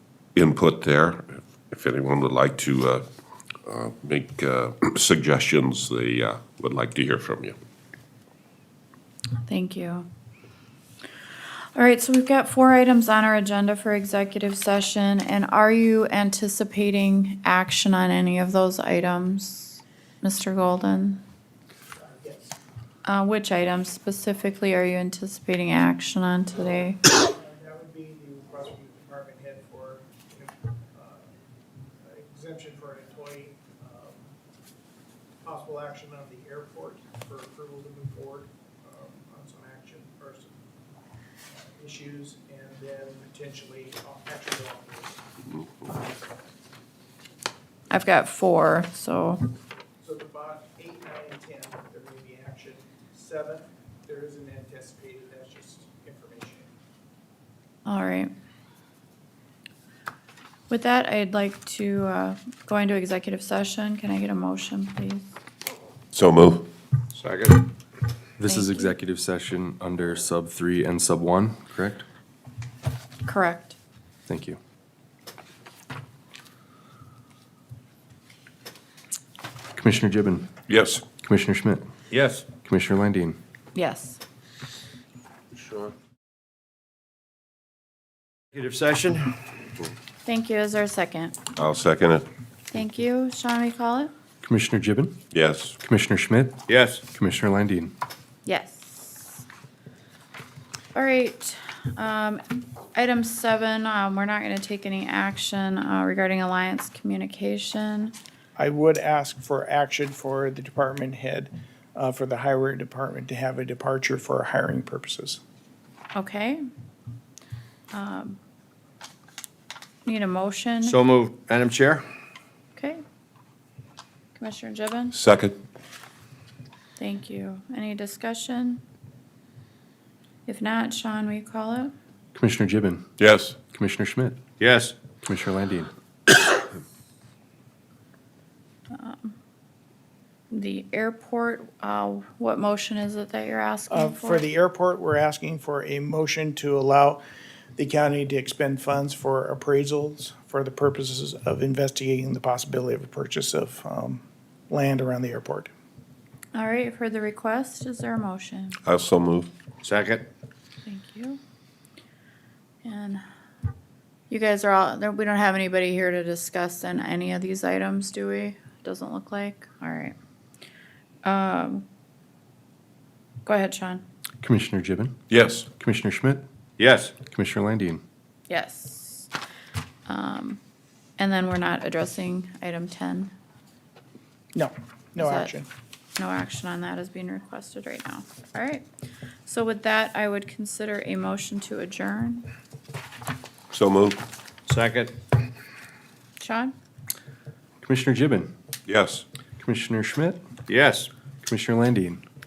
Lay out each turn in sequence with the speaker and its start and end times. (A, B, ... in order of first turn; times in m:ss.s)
0:00.4-0:03.0 A
0:03.7-0:07.6 A
0:09.5-0:10.1 B
0:11.8-0:21.2 B
0:21.9-0:22.6 C
0:23.1-0:27.0 B
0:27.3-0:31.3 C
0:32.0-0:34.3 C
0:35.4-0:40.6 C
0:41.6-0:45.2 C
0:47.9-0:49.4 B
0:50.0-0:56.7 C
0:57.9-0:58.3 B
1:00.7-1:05.3 B
1:06.1-1:06.7 A
1:07.2-1:07.6 D
1:08.4-1:12.0 E
1:08.4-1:08.9 B
1:13.2-1:13.8 B
1:14.3-1:14.6 E
1:19.8-1:20.5 E
1:20.7-1:21.0 A
1:21.2-1:21.8 E
1:22.1-1:22.4 D
1:22.6-1:23.4 E
1:23.8-1:24.2 B
1:28.6-1:29.3 D
1:30.2-1:31.4 B
1:31.5-1:32.3 A
1:32.7-1:34.1 B
1:34.4-1:35.2 E
1:35.3-1:35.8 A
1:35.8-1:37.9 E
1:36.7-1:37.0 D
1:38.4-1:39.4 B
1:41.0-1:42.4 B
1:42.9-1:48.2 B
1:48.6-1:55.4 C
1:56.2-1:56.6 B
1:57.9-1:58.4 B
2:00.0-2:01.0 B
2:00.9-2:02.0 D
2:02.8-2:03.0 B
2:04.4-2:05.2 B
2:05.1-2:05.6 A
2:07.0-2:08.8 B
2:10.5-2:11.9 B
2:12.4-2:13.1 E
2:13.2-2:13.6 A
2:13.7-2:14.4 E
2:14.6-2:14.9 D
2:15.2-2:15.9 E
2:18.9-2:19.4 B
2:20.5-2:24.5 B
2:23.9-2:27.2 C
2:27.8-2:35.7 C
2:36.6-2:38.8 B
2:38.8-2:39.5 A
2:39.9-2:40.2 D
2:40.9-2:41.4 B
2:42.8-2:43.2 B
2:44.3-2:50.2 B
2:51.2-2:51.8 B
2:53.4-2:54.0 B
2:54.4-2:56.4 E
2:55.3-2:55.6 A
2:56.8-2:57.1 D
2:57.2-2:58.0 E
2:58.5-2:59.3 B
3:00.1-3:00.6 B
3:01.2-3:03.3 B
3:04.5-3:05.7 C
3:05.2-3:05.5 B
3:06.2-3:08.9 B
3:09.4-3:12.5 B
3:13.7-3:14.2 A
3:14.7-3:15.1 D
3:16.4-3:16.7 B
3:17.8-3:18.5 E
3:18.9-3:19.2 A
3:19.6-3:20.4 E
3:20.7-3:21.1 D
3:21.4-3:22.2 E